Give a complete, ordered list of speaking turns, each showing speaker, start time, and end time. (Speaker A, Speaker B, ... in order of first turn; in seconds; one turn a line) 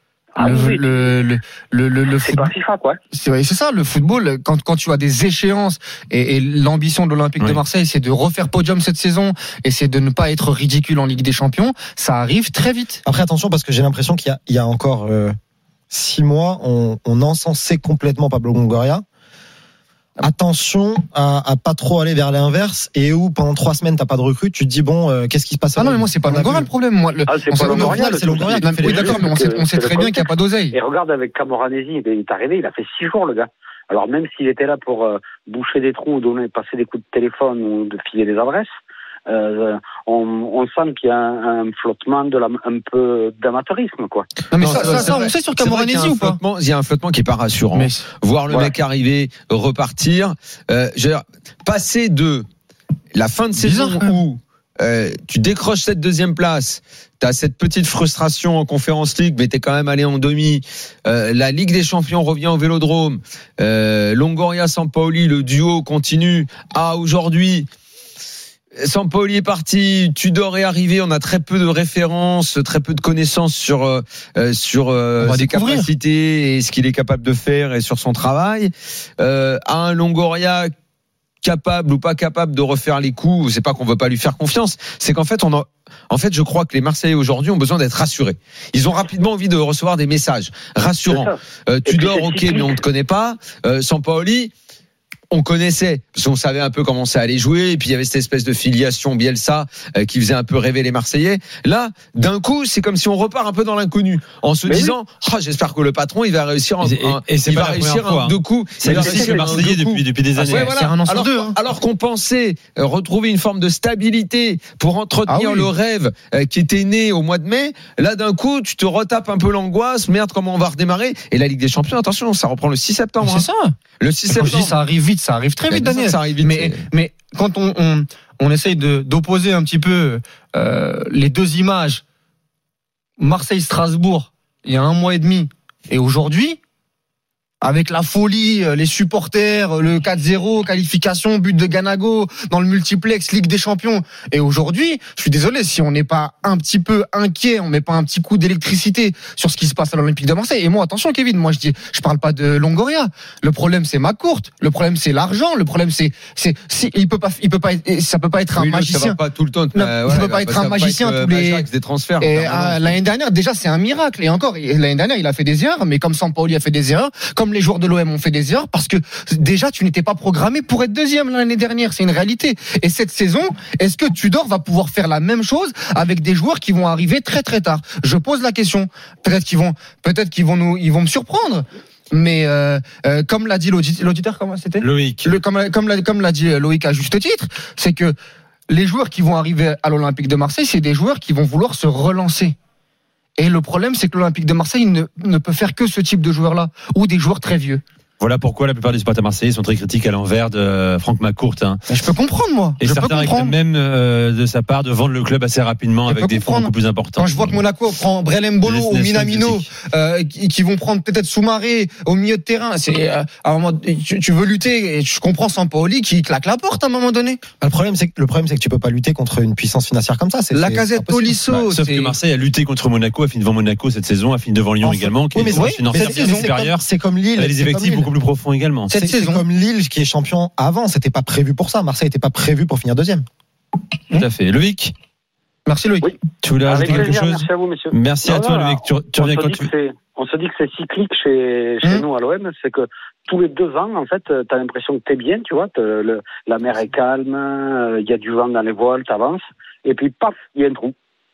Speaker A: 0.3-1.1
Speaker B: 0.4-2.5
Speaker A: 2.1-3.0
Speaker B: 3.1-13.0
Speaker C: 13.0-15.3
Speaker C: 15.9-19.0
Speaker C: 20.2-26.7
Speaker B: 25.7-30.8
Speaker A: 27.3-38.7
Speaker C: 27.5-29.3
Speaker A: 39.3-44.9
Speaker B: 44.5-46.4
Speaker D: 44.6-52.5
Speaker B: 47.7-48.7
Speaker D: 53.1-67.7
Speaker B: 53.6-54.2
Speaker D: 68.8-80.7
Speaker B: 75.2-75.9
Speaker D: 81.4-94.5
Speaker A: 91.1-92.8
Speaker D: 95.3-123.5
Speaker A: 104.7-105.0
Speaker E: 106.8-110.7
Speaker A: 109.0-109.6
Speaker B: 110.4-111.5
Speaker B: 115.3-115.7
Speaker B: 123.2-123.7
Speaker D: 124.0-124.8
Speaker B: 124.3-132.0
Speaker D: 125.7-126.8
Speaker B: 133.2-136.6
Speaker B: 137.6-159.2
Speaker D: 158.5-163.0
Speaker B: 159.7-161.7
Speaker B: 162.2-188.1
Speaker E: 184.8-185.4
Speaker B: 188.7-192.5
Speaker B: 193.4-197.8
Speaker E: 198.2-201.8
Speaker B: 201.9-203.5
Speaker E: 202.8-207.6
Speaker B: 206.1-217.4
Speaker E: 208.6-209.7
Speaker C: 217.6-221.4
Speaker B: 220.5-222.2
Speaker E: 221.5-228.9
Speaker C: 224.8-228.1
Speaker B: 225.5-226.5
Speaker B: 228.9-229.4
Speaker C: 228.9-233.2
Speaker E: 234.1-234.9
Speaker B: 235.7-236.1
Speaker A: 236.0-250.9
Speaker E: 236.4-239.7